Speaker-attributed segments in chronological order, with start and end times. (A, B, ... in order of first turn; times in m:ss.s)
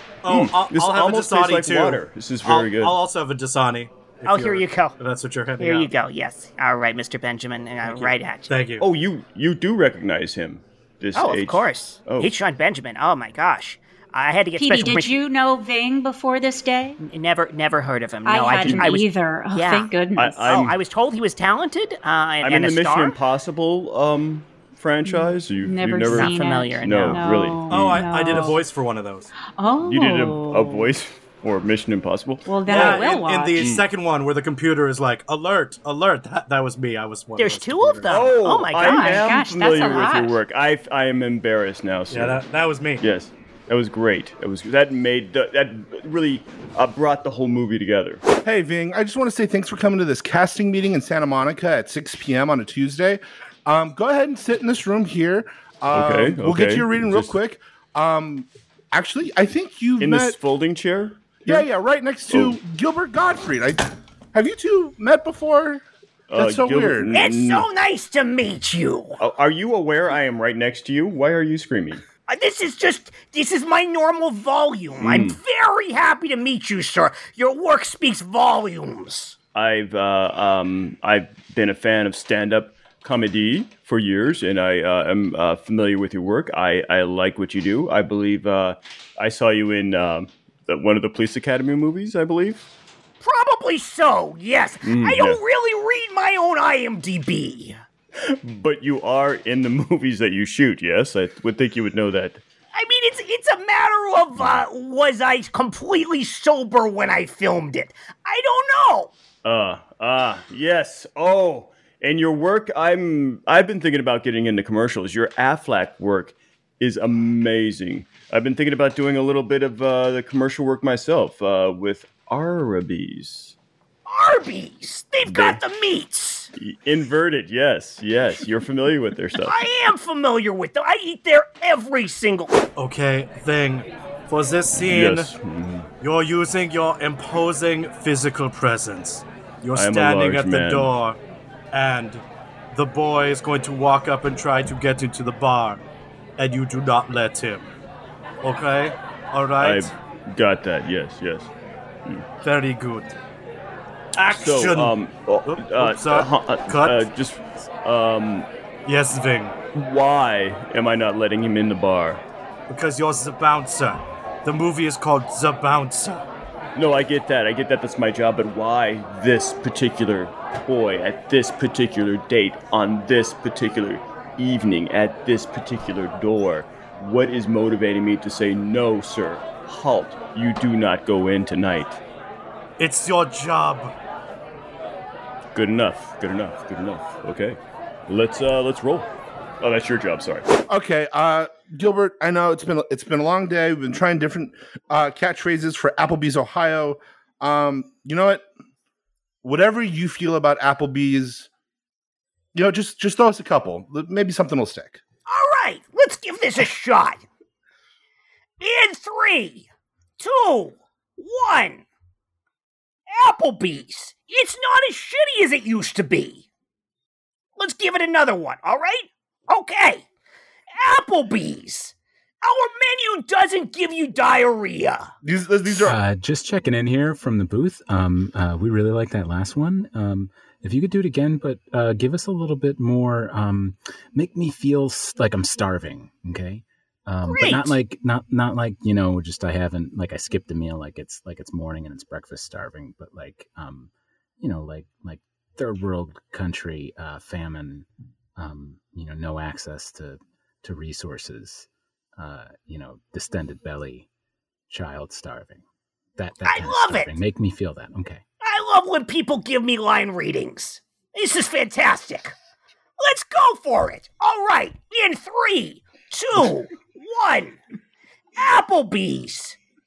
0:00.2-0:05.9 A
0:00.3-0:03.0 B
0:04.2-0:05.0 C
0:05.6-0:08.5 C
0:08.5-0:08.9 A
0:08.8-0:12.3 B
0:11.2-0:15.2 C
0:14.6-0:17.0 D
0:17.0-0:19.9 C
0:18.2-0:20.5 D
0:18.6-0:19.0 B
0:20.2-0:20.8 B
0:20.4-0:23.2 C
0:22.4-0:28.6 B
0:25.0-0:28.6 D
0:26.1-0:27.4 C
0:27.7-0:29.3 A
0:29.6-0:30.9 D
0:29.8-0:33.8 B
0:32.5-0:33.7 D
0:32.7-0:38.1 A
0:37.4-0:39.3 C
0:38.1-0:42.4 B
0:38.8-0:40.4 D
0:42.1-0:43.0 A
0:43.0-0:48.2 B
0:48.4-1:00.4 E
0:55.9-0:57.3 B
1:00.0-1:01.7 B
1:01.4-1:05.8 E
1:02.3-1:02.6 B
1:06.3-1:07.7 B
1:06.4-1:07.3 E
1:07.1-1:09.2 C
1:09.2-1:12.0 B
1:12.3-1:19.4 C
1:15.0-1:15.4 B
1:19.5-1:32.6 B
1:33.2-1:37.8 C
1:34.8-1:35.4 B
1:38.2-1:42.4 B
1:42.7-1:49.1 C
1:49.4-2:03.6 B
2:04.1-2:06.5 C
2:05.3-2:05.6 B
2:06.6-2:09.6 B
2:09.4-2:12.6 C
2:12.8-2:15.3 A
2:14.7-2:15.9 B
2:16.0-2:21.2 A
2:19.8-2:20.9 B
2:21.7-2:25.8 A
2:26.4-2:27.7 A
2:28.4-2:29.9 A
2:29.6-2:31.5 B
2:32.4-2:33.1 A
2:34.2-2:37.0 A
2:34.2-2:38.5 B
2:38.8-2:39.6 A
2:39.8-2:42.2 B
2:42.7-2:46.3 A
2:46.8-3:02.0 B
3:02.8-3:03.9 A
3:05.5-3:10.5 B
3:10.7-3:18.4 E
3:19.4-3:21.5 E
3:22.5-3:25.0 E
3:25.3-3:27.2 C
3:28.6-3:29.7 C
3:30.2-3:31.8 C
3:33.1-3:36.5 C
3:37.6-3:40.0 C
3:40.7-3:45.1 C
3:45.2-3:46.0 E
3:45.8-4:07.9 F
3:57.2-3:57.8 C
4:08.4-4:14.1 F
4:14.7-4:15.6 F
4:16.2-4:18.2 F
4:16.4-4:17.2 C
4:18.4-4:22.4 C
4:23.0-4:27.6 C
4:28.4-4:29.6 C